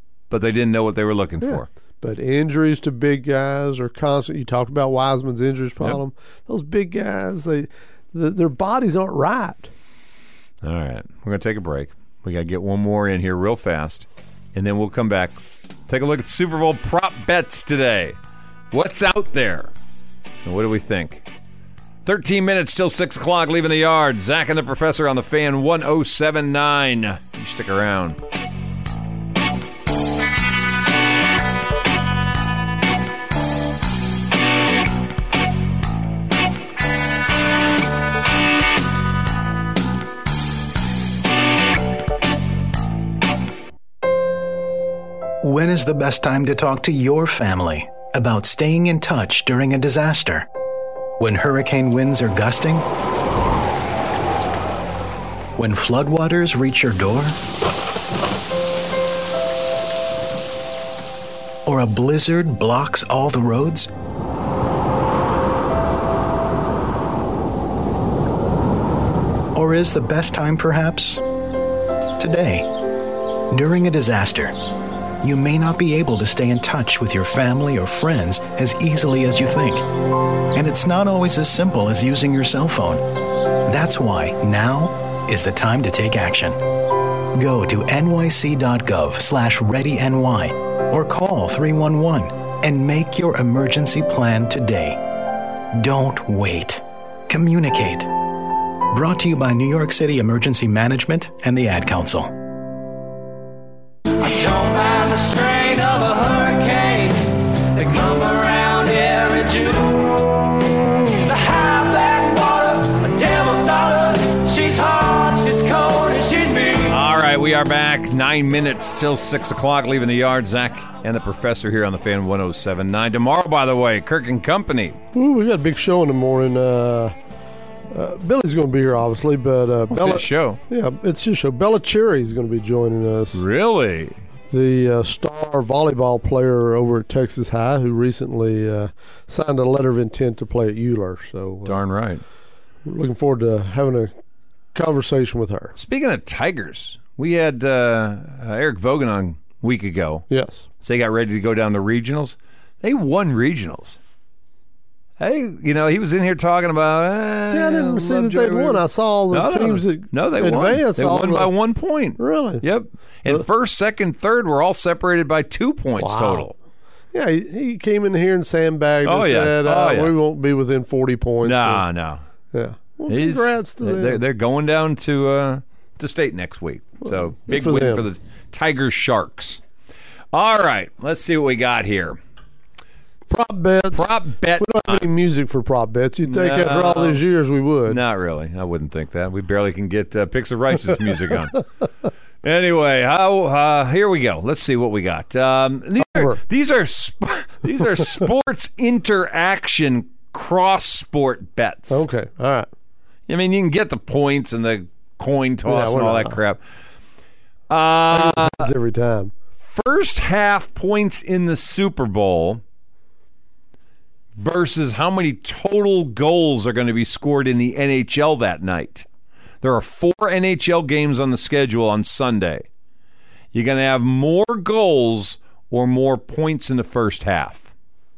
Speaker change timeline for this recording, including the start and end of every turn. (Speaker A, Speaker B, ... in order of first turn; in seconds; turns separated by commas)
Speaker A: 0.3-1.7, Speaker B: 1.4-9.7, Speaker A: 10.6-18.2, Speaker A: 18.7-19.7, Speaker A: 20.4-21.2, Speaker A: 22.0-28.2, Speaker C: 45.4-50.5, Speaker C: 51.2-52.9, Speaker C: 55.5-57.4, Speaker C: 61.6-63.9, Speaker C: 69.5-71.2, Speaker C: 72.2-72.7, Speaker C: 73.5-74.6, Speaker C: 75.2-79.9, Speaker C: 80.5-83.0, Speaker C: 83.6-86.6, Speaker C: 87.3-95.2, Speaker C: 95.7-98.2, Speaker C: 98.9-102.3, Speaker D: 104.2-110.3, Speaker D: 111.2-117.0, Speaker A: 116.9-125.0, Speaker B: 125.1-127.2, Speaker B: 127.9-133.4, Speaker A: 129.9-130.6, Speaker A: 133.3-134.2, Speaker B: 134.5-141.8, Speaker A: 141.6-142.2, Speaker B: 142.8-144.1, Speaker B: 144.7-145.7, Speaker A: 145.8-150.2, Speaker B: 150.3-150.7, Speaker A: 150.8-154.0, Speaker A: 155.2-166.5, Speaker B: 157.5-161.5, Speaker B: 162.2-162.6, Speaker B: 166.0-166.5, Speaker B: 167.1-171.8, Speaker A: 169.0-170.1, Speaker A: 171.4-172.2, Speaker B: 172.5-174.2, Speaker A: 173.1-179.6, Speaker B: 177.1-178.1, Speaker A: 180.3-182.2, Speaker B: 183.3-188.0, Speaker A: 183.9-185.1, Speaker A: 186.2-187.2, Speaker A: 187.9-191.6, Speaker A: 192.4-202.0, Speaker B: 196.0-196.4, Speaker B: 201.9-202.7, Speaker A: 203.3-206.6, Speaker B: 205.6-206.4, Speaker A: 207.7-208.7, Speaker B: 208.1-209.3, Speaker A: 209.6-212.6, Speaker A: 214.3-219.1, Speaker A: 219.6-222.7, Speaker A: 223.5-227.7